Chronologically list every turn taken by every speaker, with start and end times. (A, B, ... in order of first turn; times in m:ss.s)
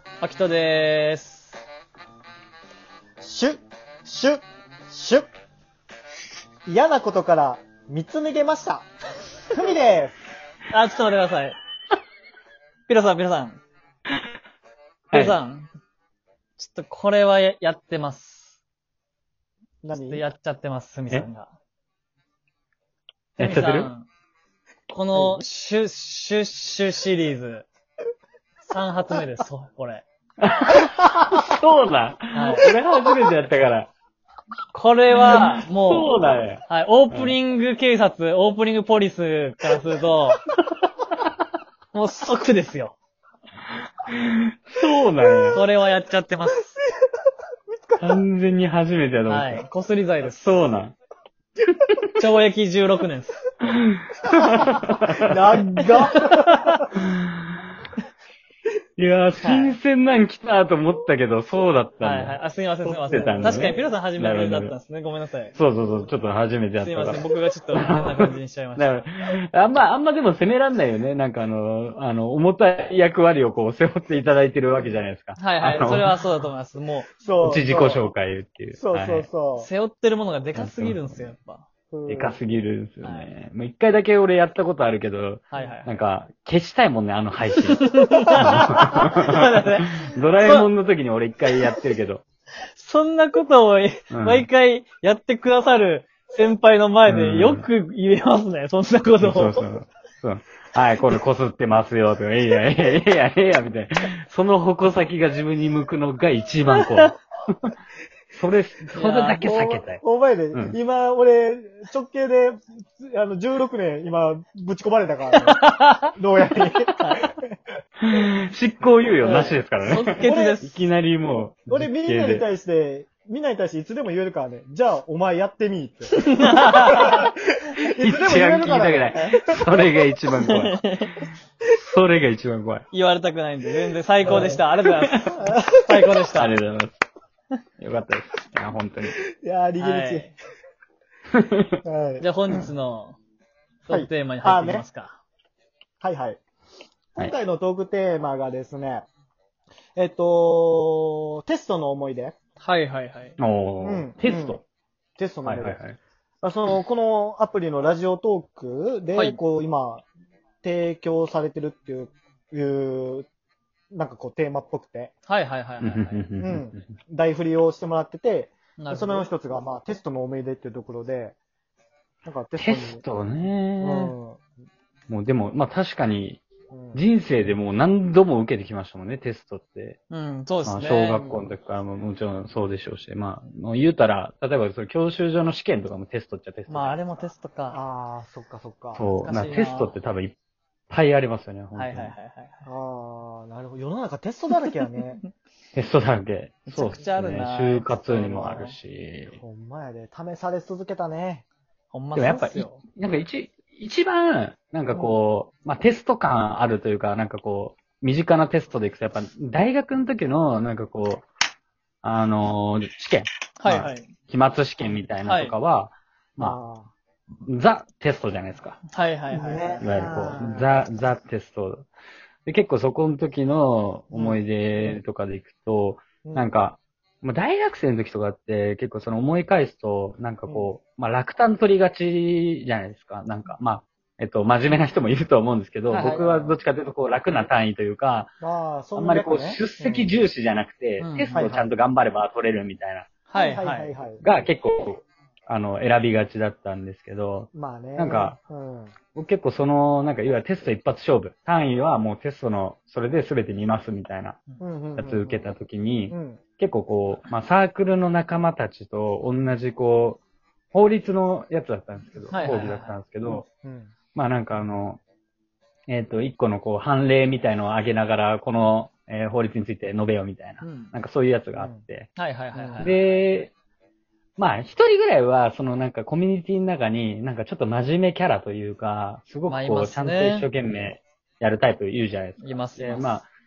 0:00.2-0:01.6 A
0:03.2-0:05.3 B
0:06.6-0:08.9 B
0:09.5-0:10.1 B
0:10.7-0:11.6 A
0:12.9-0:13.6 A
0:15.1-0:15.4 C
0:15.1-0:15.7 A
0:16.6-0:18.6 A
0:19.8-0:20.2 B
0:19.9-0:21.5 A
0:23.4-0:23.9 C
0:23.4-0:24.1 A
0:24.9-0:27.6 A
0:25.1-0:25.4 B
0:28.7-0:30.0 A
0:30.4-0:33.9 C
0:32.3-0:32.7 A
0:34.7-0:36.1 A
0:35.2-0:37.4 C
0:36.7-0:40.4 A
0:41.9-0:43.0 A
0:44.1-0:45.6 C
0:45.2-0:45.5 B
0:45.5-0:46.7 A
0:46.8-0:47.1 B
0:47.7-0:48.2 B
0:48.0-0:49.7 C
0:49.3-0:50.7 A
0:50.2-0:50.9 C
0:52.1-0:53.4 A
0:53.7-0:55.9 C
0:54.6-0:56.8 B
0:56.0-0:56.8 A
0:57.0-0:57.6 C
0:59.0-1:04.8 C
0:59.4-0:59.8 A
1:02.0-1:05.5 A
1:03.1-1:03.8 B
1:05.5-1:16.1 C
1:06.8-1:09.0 A
1:15.4-1:17.1 A
1:17.2-1:18.0 B
1:17.4-1:19.3 C
1:18.8-1:19.7 B
1:19.6-1:21.6 A
1:20.5-1:21.2 C
1:21.9-1:22.4 B
1:22.0-1:32.2 C
1:23.0-1:23.3 A
1:25.5-1:25.9 A
1:27.6-1:30.7 A
1:28.3-1:28.6 B
1:32.7-1:39.7 A
1:34.1-1:34.5 C
1:37.1-1:37.6 C
1:39.2-1:47.7 C
1:46.7-1:47.0 A
1:48.3-1:50.8 C
1:48.9-1:49.4 A
1:49.4-1:57.4 B
1:55.4-1:56.1 A
1:56.9-1:57.3 A
1:58.0-2:02.5 C
1:59.2-1:59.6 B
1:59.2-2:00.8 A
2:00.2-2:00.6 B
2:01.7-2:09.6 B
2:06.2-2:07.2 A
2:08.0-2:10.8 C
2:10.4-2:11.2 A
2:11.7-2:12.8 C
2:12.9-2:16.5 A
2:14.2-2:14.6 B
2:15.3-2:16.1 B
2:16.3-2:17.0 C
2:17.8-2:19.2 C
2:19.3-2:20.3 B
2:19.8-2:20.3 A
2:21.3-2:21.8 C
2:21.8-2:22.7 B
2:22.2-2:23.2 A
2:23.8-2:25.2 A
2:23.9-2:24.8 B
2:26.0-2:26.4 B
2:27.2-2:29.0 B
2:29.9-2:32.4 B
2:32.6-2:33.4 A
2:33.4-2:34.6 C
2:33.8-2:34.6 B
2:35.2-2:35.8 B
2:35.4-2:36.0 C
2:36.4-2:40.1 B
2:40.6-2:43.3 B
2:43.9-2:45.1 B
2:45.2-2:46.2 A
2:45.8-2:46.9 C
2:46.4-2:51.4 B
2:48.8-2:49.3 A
2:52.2-2:53.0 B
2:52.5-2:54.1 C
2:53.8-2:54.4 B
2:55.1-3:00.0 C
2:56.7-2:57.0 B
3:00.1-3:01.1 A
3:00.6-3:07.3 C
3:01.0-3:01.4 B
3:06.7-3:07.8 A
3:07.7-3:09.1 B
3:08.9-3:10.3 C
3:09.2-3:09.9 A
3:10.9-3:12.1 C
3:11.7-3:12.6 A
3:12.6-3:15.2 B
3:15.7-3:19.4 C
3:16.7-3:18.7 A
3:18.2-3:18.6 B
3:19.4-3:21.4 B
3:21.9-3:22.8 A
3:22.1-3:31.2 C
3:32.0-3:36.6 C
3:33.6-3:34.1 A
3:35.2-3:35.5 A
3:36.4-3:36.9 B
3:37.5-3:38.8 C
3:38.9-3:39.8 A
3:39.3-3:40.7 B
3:39.8-3:41.8 C
3:42.4-3:58.3 C
3:44.1-3:44.9 B
3:46.2-3:46.5 B
3:50.5-3:50.7 B
3:55.9-3:56.2 A
3:56.0-3:56.6 B
3:58.4-4:00.1 B
3:58.9-4:03.1 C
4:01.0-4:01.5 A
4:01.3-4:01.7 B
4:03.3-4:03.9 A
4:03.3-4:04.2 B
4:04.2-4:08.4 C
4:07.5-4:09.0 B
4:09.1-4:14.4 C
4:14.6-4:15.5 B
4:15.0-4:23.4 C
4:16.1-4:16.4 B
4:22.3-4:23.0 A
4:23.3-4:24.0 B
4:24.1-4:25.0 C
4:25.9-4:32.2 C
4:30.6-4:30.9 A
4:31.6-4:31.8 B
4:32.2-4:32.9 A
4:32.5-4:32.9 B
4:32.8-4:33.5 C
4:34.4-4:43.3 C
4:39.5-4:40.5 A
4:42.4-4:43.2 A